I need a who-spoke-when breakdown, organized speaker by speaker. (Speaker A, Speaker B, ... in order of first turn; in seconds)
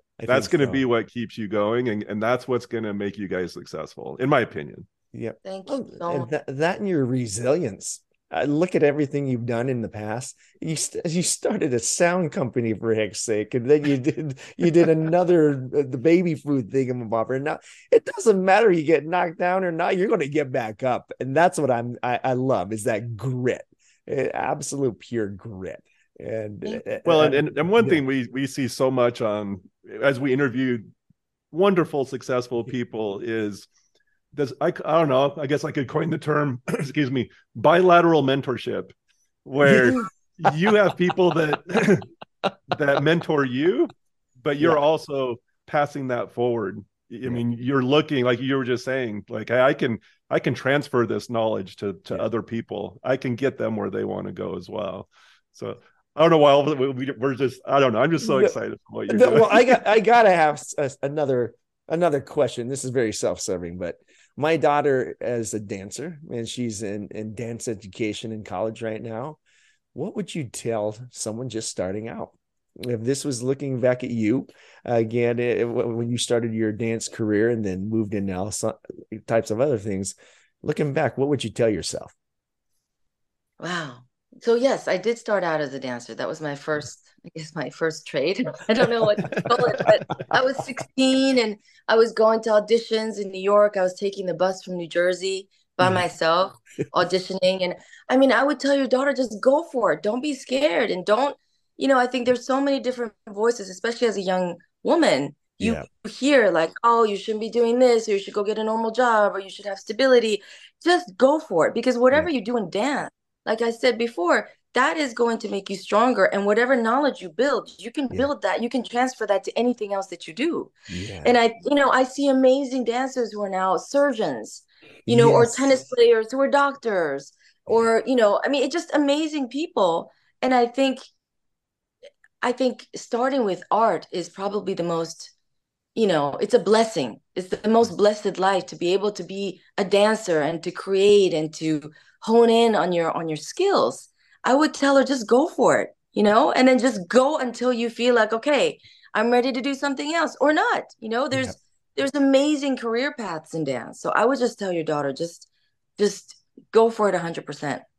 Speaker A: 0.2-0.8, 5.1-28.0, 39.6-40.7, 58.2-58.5, 59.1-69.4, 69.9-82.1, 105.6-105.9, 120.9-121.3, 125.0-125.7
Speaker B: 0.3-4.9, 27.0-30.9, 31.5-33.7, 34.3-38.9, 39.4-42.1, 42.7-59.8
Speaker C: 5.4-6.3, 83.6-120.7, 121.2-131.0, 132.4-135.3, 135.9-157.8